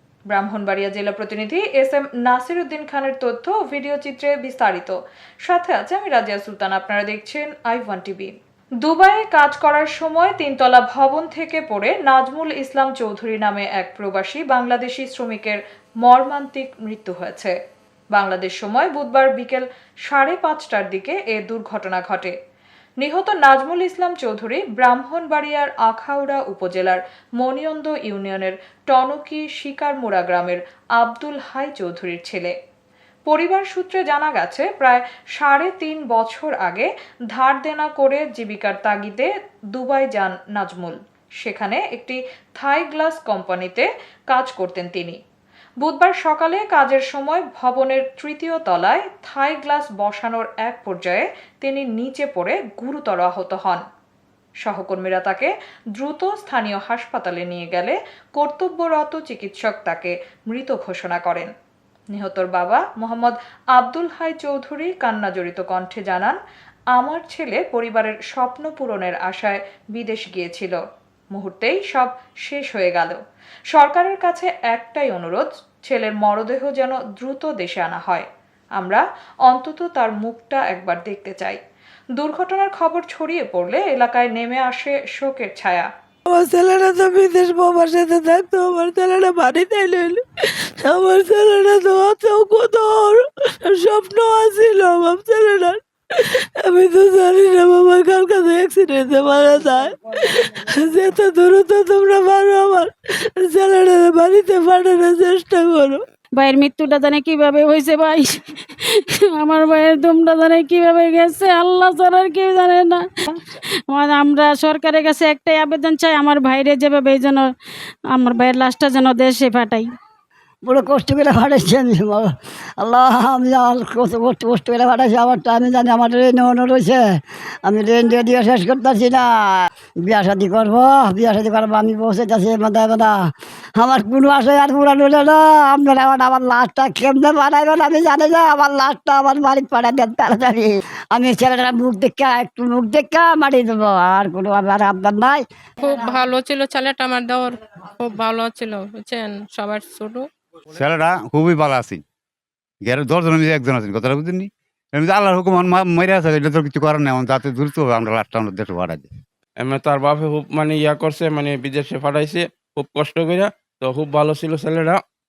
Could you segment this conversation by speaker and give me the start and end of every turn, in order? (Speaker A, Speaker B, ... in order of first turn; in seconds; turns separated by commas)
Speaker A: 0.3-17.6, Speaker A: 18.1-22.4, Speaker A: 23.0-32.5, Speaker A: 33.3-45.2, Speaker A: 45.8-53.8, Speaker A: 54.6-61.5, Speaker A: 62.1-66.4, Speaker A: 67.0-73.2, Speaker A: 73.7-81.6, Speaker A: 82.2-85.9, Speaker B: 86.3-106.0, Speaker C: 106.4-117.5, Speaker C: 118.1-119.9, Speaker D: 120.7-127.0, Speaker D: 127.6-145.4, Speaker E: 145.8-150.3, Speaker F: 150.8-152.0, Speaker F: 152.8-159.1, Speaker G: 159.6-165.0